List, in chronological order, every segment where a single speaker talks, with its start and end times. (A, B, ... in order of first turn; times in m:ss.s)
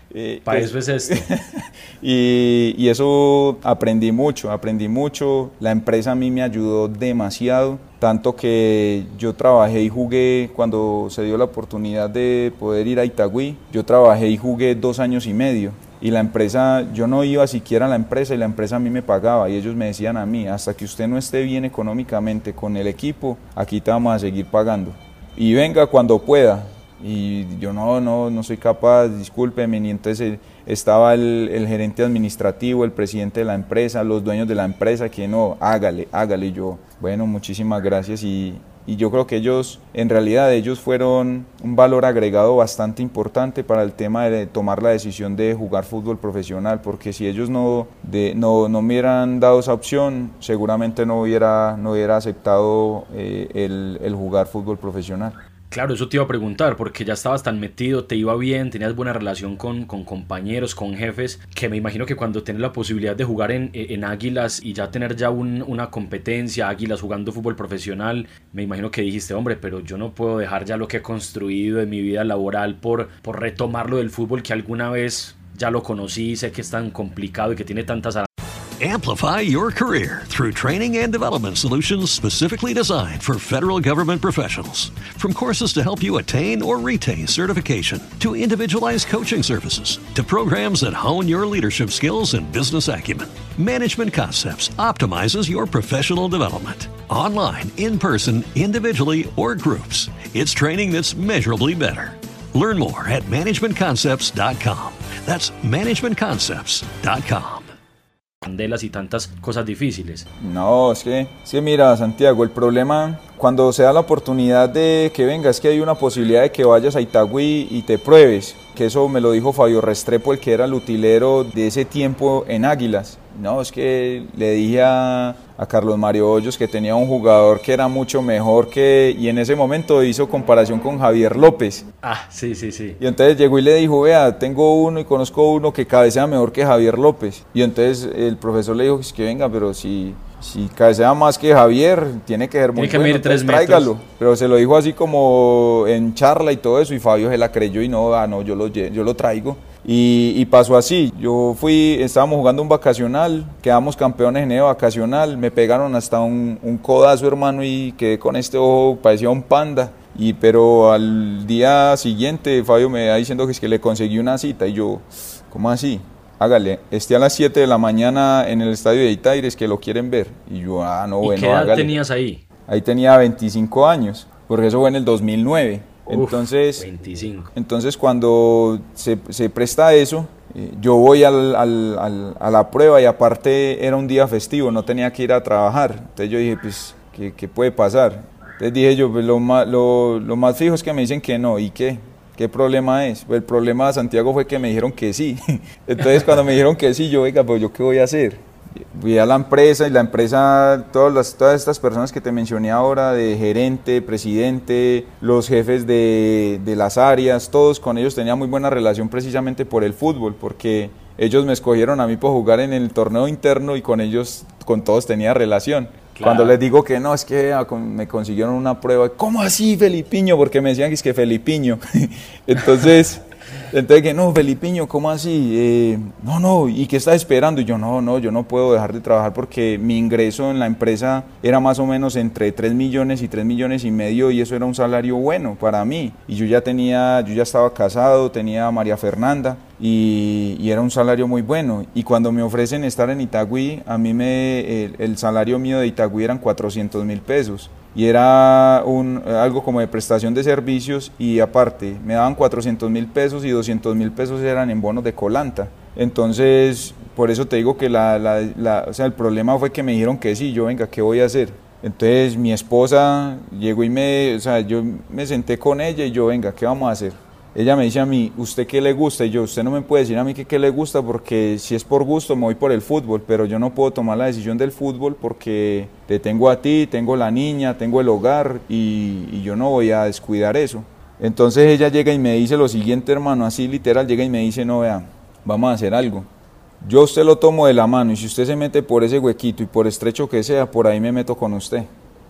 0:00.1-0:55.4 A
0:00.4-0:01.3 B
0:55.7-1:18.3 B
1:18.8-1:47.7 C
1:48.4-1:50.2 B
1:50.4-2:11.8 A
2:12.0-2:13.0 B
2:13.0-2:52.0 A
2:22.7-2:23.9 B
2:51.2-2:52.4 B
2:52.7-2:56.9 A
2:56.1-2:57.5 B
2:57.5-4:46.3 A
3:36.1-3:36.6 B
4:46.8-4:51.9 A